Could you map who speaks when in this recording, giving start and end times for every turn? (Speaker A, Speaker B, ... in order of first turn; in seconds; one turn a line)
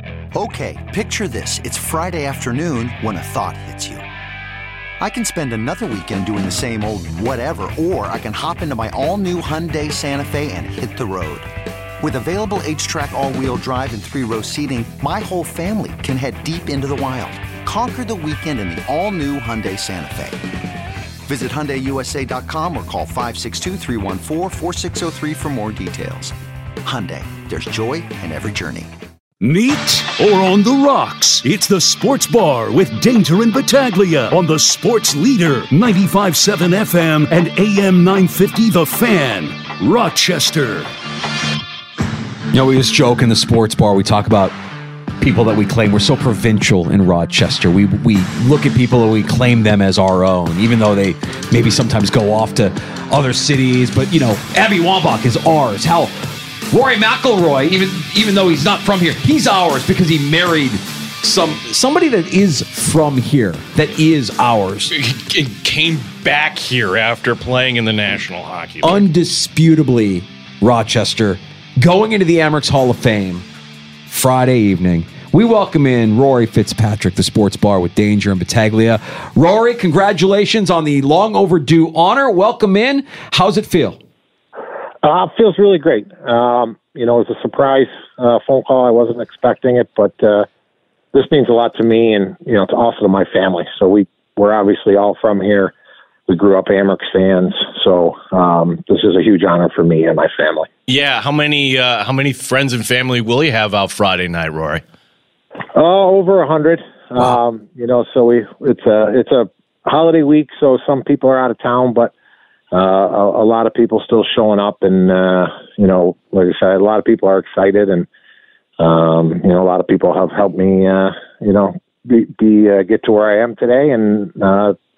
Speaker A: 0.3-4.0
Speaker A: 5.0-11.5
Speaker A: 12.0-20.4
Speaker A: 21.3-28.9
Speaker B: 29.4-40.9
Speaker C: 42.5-44.5
Speaker C: 45.2-56.1
Speaker C: 56.7-64.9
Speaker D: 64.9-69.0
Speaker C: 68.8-73.5
Speaker C: 74.1-84.0
Speaker E: 85.0-90.5
Speaker E: 91.1-95.7
Speaker E: 96.3-100.7
Speaker D: 100.9-104.8
Speaker E: 105.8-112.1
Speaker E: 112.7-118.1
Speaker E: 118.8-124.7